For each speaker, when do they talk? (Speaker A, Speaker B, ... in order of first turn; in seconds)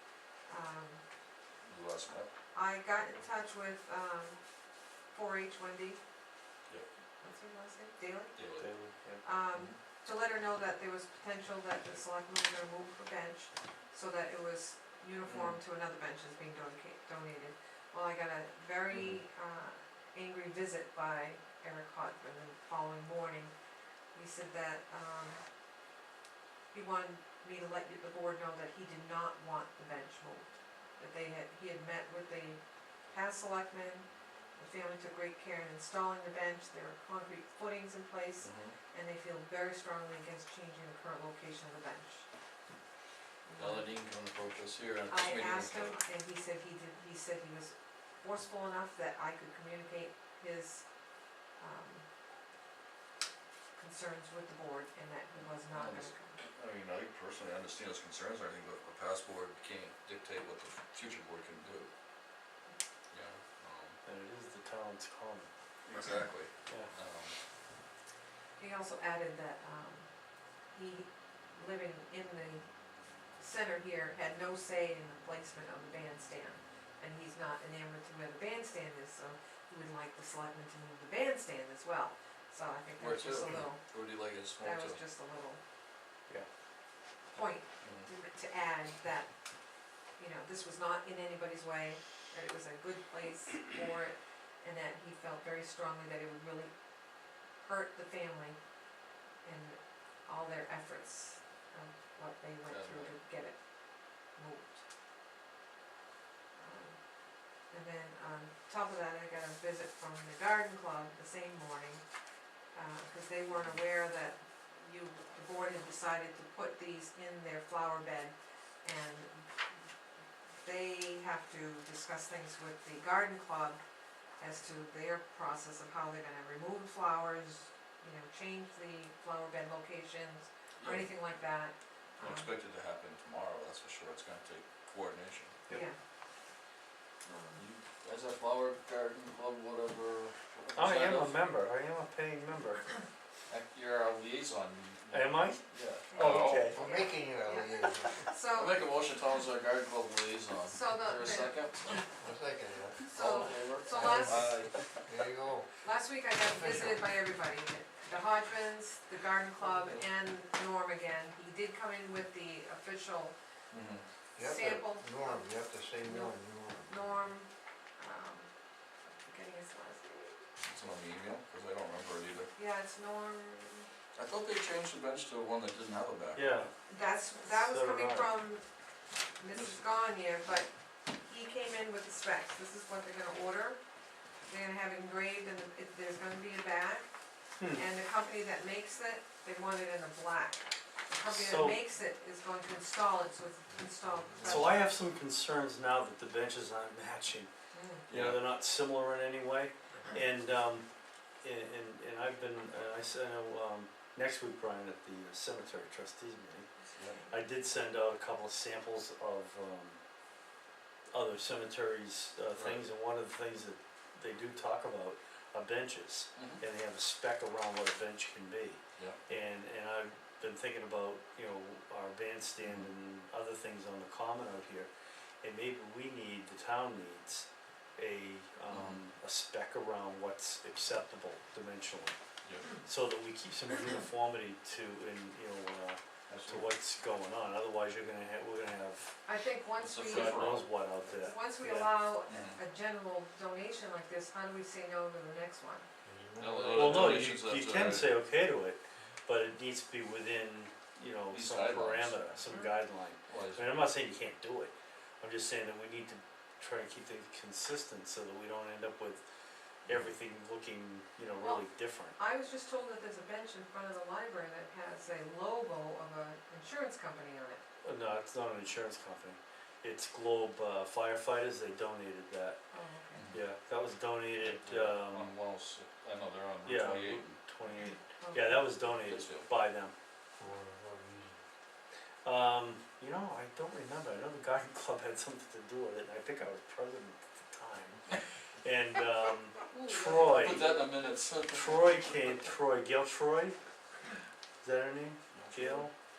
Speaker A: 0.5-1.0, 2.5-4.4, 5.1-6.0, 7.2-8.3, 9.2-23.5, 24.1-25.4, 26.7-42.3, 43.4-43.9, 45.1-50.8, 51.5-52.0, 53.8-56.4, 68.6-70.1, 70.7-72.7, 73.4-83.8, 84.5-85.6, 87.3-89.3, 90.2-96.7, 97.6-98.6, 99.4-103.6, 104.3-104.8, 106.5-107.0, 107.7-112.0, 112.7-119.5, 120.6-123.8, 124.4-132.5, 135.7-136.0, 137.2-137.6, 146.1-148.8, 150.7-152.0, 153.0-154.5, 155.8-163.3, 164.4-168.5, 169.1-170.4, 172.6-173.9, 176.9-178.6, 179.4-183.8, 184.5-187.1, 187.7-194.9, 197.7-198.0, 239.2-245.9, 252.5-252.7, 261.4-267.6, 272.7-273.2, 278.2-278.7, 289.7-290.7
Speaker B: 1.6-2.3, 8.3-8.7, 15.2-15.6, 18.9-19.2, 38.4-38.7, 43.6-45.9, 55.7-61.9, 63.1-64.0, 65.9-67.4, 83.0-85.0, 87.8-88.1, 102.7-103.1, 130.8-131.1, 132.2-135.6, 137.6-141.4, 143.5-146.7, 148.5-152.1, 153.1-154.8, 159.6-160.0, 163.7-164.0, 170.6-172.5, 174.1-176.7, 198.1-198.4, 206.9-207.2, 216.3-216.6, 222.6-222.9, 228.7-229.0, 236.3-236.7, 239.8-240.7, 242.3-242.6, 246.4-248.1, 251.3-252.2, 253.3-253.7, 273.1-273.4, 274.4-277.4, 278.9-279.5, 290.2-292.1, 295.3-295.9
Speaker C: 8.6-9.2, 64.0-66.1, 66.7-66.9, 140.7-142.9, 145.1-146.8, 176.3-176.7, 177.5-178.3, 191.3-191.8, 194.4-197.5, 198.1-200.8, 201.4-206.7, 207.3-210.0, 211.1-224.9, 225.4-232.1, 232.8-239.2, 240.0-241.9, 246.7-259.2, 259.9-262.1, 267.8-272.6, 273.3-275.3, 276.6-279.9, 282.2-290.8, 291.4-293.6, 294.6-295.9
Speaker D: 146.7-148.2, 152.2-153.0, 153.9-154.4, 155.1-155.7, 156.4-157.0, 164.3-167.2, 194.1-194.6, 246.0-246.9, 280.4-281.4